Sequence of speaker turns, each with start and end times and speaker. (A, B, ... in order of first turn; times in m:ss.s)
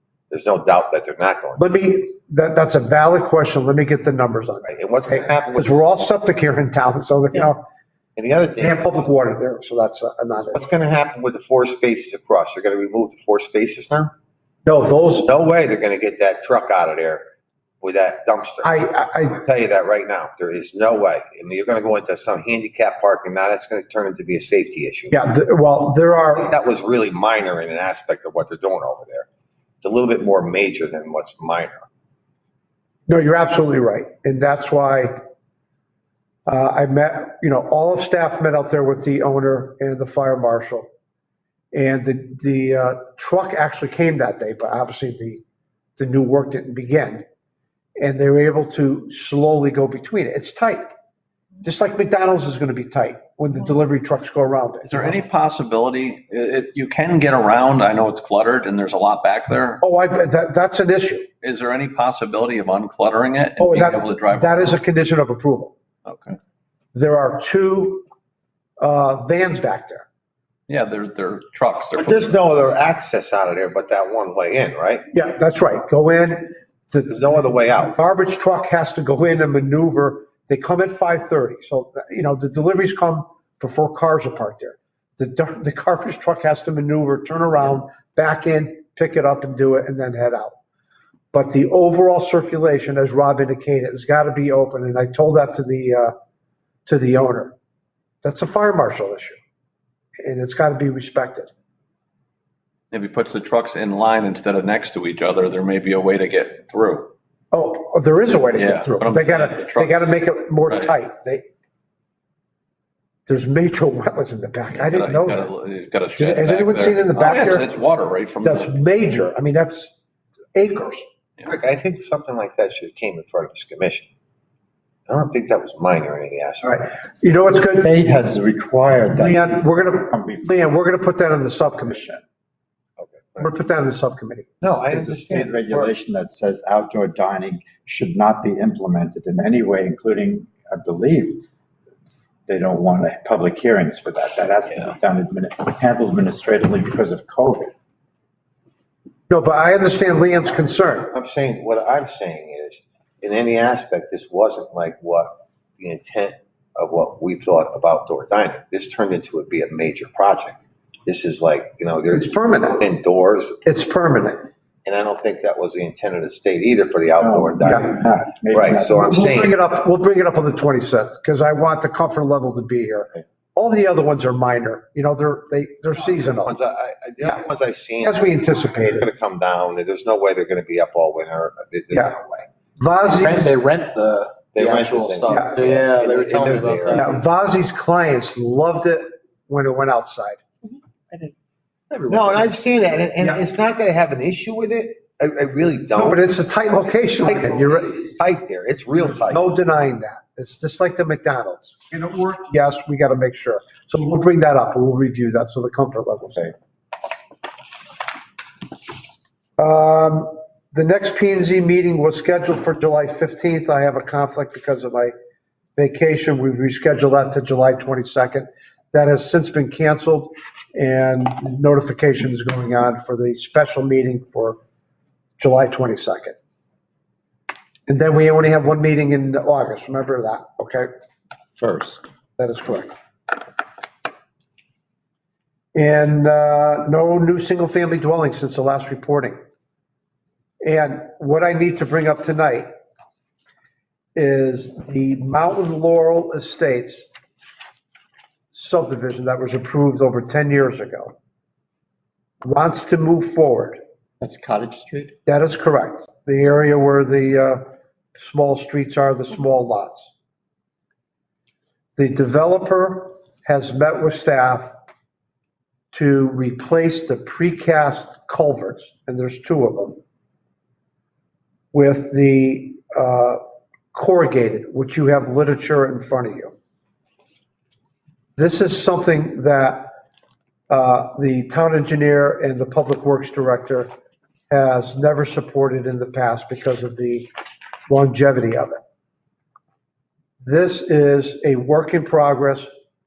0:00.3-0:01.6 A
0:01.6-0:07.6 B
0:04.7-0:05.7 A
0:08.2-0:08.8 A
0:08.6-0:10.6 B
0:10.5-0:14.1 A
0:14.7-0:15.3 B
0:15.2-0:17.2 A
0:17.8-0:25.2 A
0:18.6-0:19.4 B
0:25.1-0:26.6 B
0:26.4-0:29.3 A
0:29.8-0:31.9 A
0:33.1-0:35.2 B
0:36.5-0:40.9 B
0:41.7-0:45.4 B
0:46.0-0:47.2 B
0:48.0-0:50.9 B
0:51.6-0:55.2 B
0:54.8-0:59.8 C
0:59.8-1:01.3 B
1:01.4-1:04.7 C
1:03.6-1:05.7 B
1:06.1-1:06.4 C
1:07.0-1:08.0 B
1:08.8-1:10.1 B
1:10.7-1:12.4 C
1:12.0-1:15.0 A
1:15.1-1:17.1 B
1:17.1-1:18.0 A
1:17.9-1:30.6 B
1:31.3-1:36.1 B
1:36.9-1:37.6 B
1:38.2-1:39.4 B
1:40.2-1:41.5 B
1:42.9-1:47.1 C
1:47.5-1:51.4 B
1:48.6-1:50.1 C
1:50.7-1:51.0 C
1:53.3-1:55.5 B
1:54.7-1:58.8 C
1:56.2-1:57.7 B
1:58.4-2:00.0 B
2:00.6-2:01.1 B
2:01.4-2:04.1 A
2:05.1-2:06.9 A
2:06.6-2:07.9 B
2:07.6-2:10.7 D
2:09.1-2:12.1 B
2:11.9-2:12.2 D
2:13.0-2:13.5 A
2:13.4-2:14.5 B
2:14.6-2:15.5 A
2:14.7-2:21.4 D
2:22.5-2:27.8 D
2:29.3-2:31.1 B
2:31.1-2:43.6 A
2:42.1-2:42.8 B
2:43.6-2:44.5 B
2:44.8-2:48.0 A
2:47.2-2:49.2 D
2:47.7-2:47.9 B
2:48.5-2:49.5 A
2:49.1-2:56.5 B
2:56.0-3:02.5 A
2:58.0-2:59.1 B
3:02.8-3:03.6 B
3:03.1-3:07.1 E
3:04.5-3:07.1 A
3:06.9-3:10.4 B
3:11.9-3:12.5 E
3:12.1-3:16.3 A
3:16.0-3:18.0 B
3:17.2-3:19.6 A
3:19.3-3:26.5 B
3:29.6-3:35.1 B
3:35.8-3:44.6 B
3:45.4-3:46.4 B
3:47.9-3:50.9 B
3:51.6-3:52.0 D
3:52.4-3:52.9 B
3:55.8-3:59.4 B
4:00.6-4:02.7 B
4:04.2-4:07.1 B
4:08.5-4:11.1 B
4:12.4-4:13.8 B
4:14.2-4:15.1 D
4:15.3-4:17.6 B
4:18.2-4:20.1 B
4:22.0-4:24.7 B
4:25.9-4:30.0 B
4:31.7-4:33.4 B
4:33.9-4:36.5 B
4:38.4-4:39.9 B
4:40.7-4:43.9 B
4:44.5-4:47.3 B
4:47.9-4:48.8 B
4:50.4-4:52.7 B